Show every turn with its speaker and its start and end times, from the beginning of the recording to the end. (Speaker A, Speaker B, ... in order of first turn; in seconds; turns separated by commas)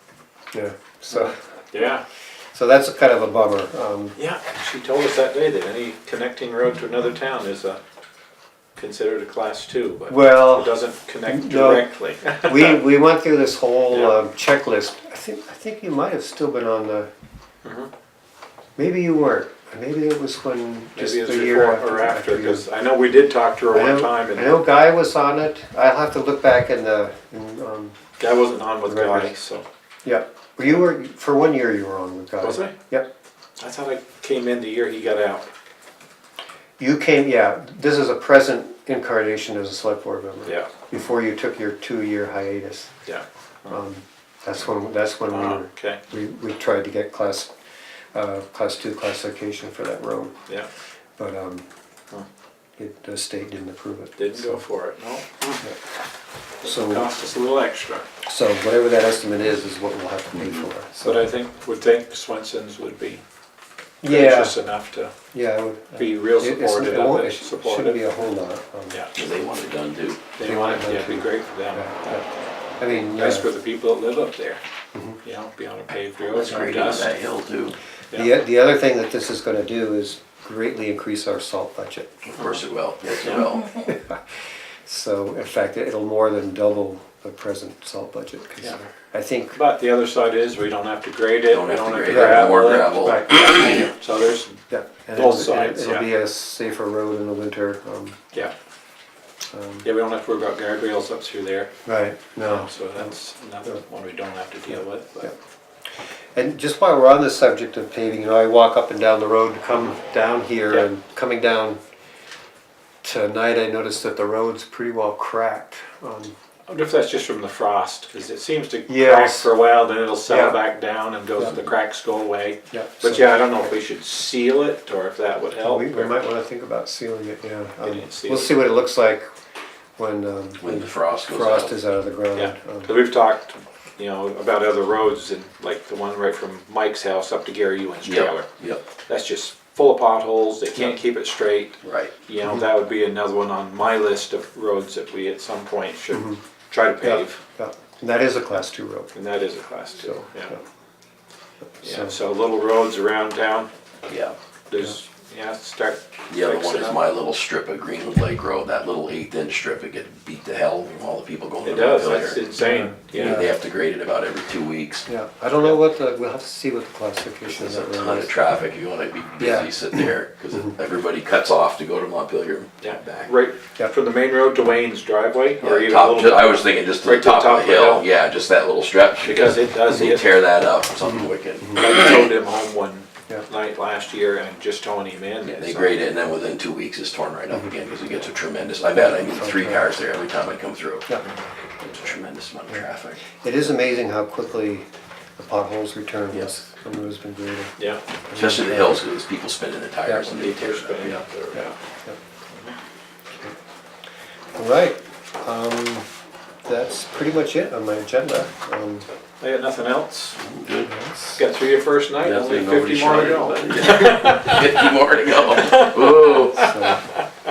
Speaker A: 0.5-1.4, Speaker B: 1.1-2.0, Speaker A: 2.5-4.2, Speaker B: 4.2-7.8, Speaker B: 8.8-12.8, Speaker A: 10.1-11.9, Speaker A: 12.4-17.1, Speaker B: 13.9-14.2, Speaker B: 17.6-17.9, Speaker A: 18.8-22.7, Speaker B: 20.9-24.7, Speaker A: 23.7-27.9, Speaker B: 28.2-29.6, Speaker A: 28.8-29.3, Speaker A: 30.0-33.1, Speaker B: 32.4-32.7, Speaker B: 33.6-35.5, Speaker A: 36.8-42.9, Speaker B: 40.5-40.7, Speaker B: 43.0-43.8, Speaker A: 43.7-47.5, Speaker B: 45.3-46.0, Speaker A: 48.1-50.3, Speaker A: 51.2-51.6, Speaker A: 52.8-54.6, Speaker B: 54.2-55.6, Speaker B: 56.6-58.0, Speaker A: 56.6-57.1, Speaker A: 58.2-61.3, Speaker C: 60.4-60.7, Speaker B: 61.0-63.2, Speaker A: 64.0-64.5, Speaker B: 64.0-65.1, Speaker A: 65.3-69.0, Speaker B: 66.0-68.0, Speaker C: 69.1-70.2, Speaker B: 70.3-71.8, Speaker A: 70.4-72.3, Speaker A: 72.8-73.5, Speaker B: 73.0-74.6, Speaker A: 74.9-75.2, Speaker B: 75.2-77.1, Speaker C: 76.2-77.8, Speaker A: 78.1-82.3, Speaker C: 82.3-83.7, Speaker A: 83.7-84.2, Speaker A: 84.8-89.6, Speaker B: 89.5-94.6, Speaker C: 91.5-93.8, Speaker A: 92.0-93.9, Speaker A: 94.7-98.2, Speaker B: 95.1-96.1, Speaker A: 99.5-99.9, Speaker B: 99.8-101.7, Speaker A: 101.8-103.1, Speaker B: 102.4-105.3, Speaker A: 104.7-105.3, Speaker A: 106.3-111.8, Speaker A: 113.0-116.3, Speaker B: 116.7-126.1, Speaker A: 118.9-119.5, Speaker A: 120.3-120.6, Speaker A: 122.7-123.5, Speaker A: 125.6-129.3, Speaker B: 127.8-128.6, Speaker A: 130.0-133.0, Speaker C: 130.6-131.8, Speaker B: 132.3-138.5, Speaker C: 138.0-138.8, Speaker B: 139.1-147.4, Speaker C: 141.8-142.1, Speaker A: 146.1-146.4, Speaker A: 147.0-149.1, Speaker B: 149.1-150.6, Speaker A: 150.0-150.6, Speaker A: 151.8-152.2, Speaker B: 151.8-153.7, Speaker C: 154.1-154.3, Speaker B: 154.7-157.0, Speaker C: 156.3-162.4, Speaker B: 161.6-163.4, Speaker A: 162.6-163.5, Speaker C: 163.1-165.1, Speaker A: 165.1-168.3, Speaker C: 167.5-173.3, Speaker A: 169.4-170.1, Speaker B: 172.8-178.1, Speaker C: 175.6-182.2, Speaker B: 179.2-180.3, Speaker A: 181.0-181.8, Speaker B: 181.7-185.9, Speaker C: 185.4-191.1, Speaker A: 188.9-189.9, Speaker C: 191.8-193.2, Speaker A: 192.7-194.9, Speaker A: 195.4-197.7, Speaker A: 198.3-199.0, Speaker C: 198.3-201.2, Speaker A: 200.0-200.3, Speaker B: 200.2-201.7, Speaker A: 201.5-202.2, Speaker B: 202.5-202.8, Speaker A: 204.5-206.1, Speaker A: 206.6-209.1, Speaker B: 209.4-210.4, Speaker C: 210.4-210.9, Speaker A: 210.8-211.4, Speaker B: 211.3-217.2, Speaker C: 212.2-216.7, Speaker A: 216.4-217.0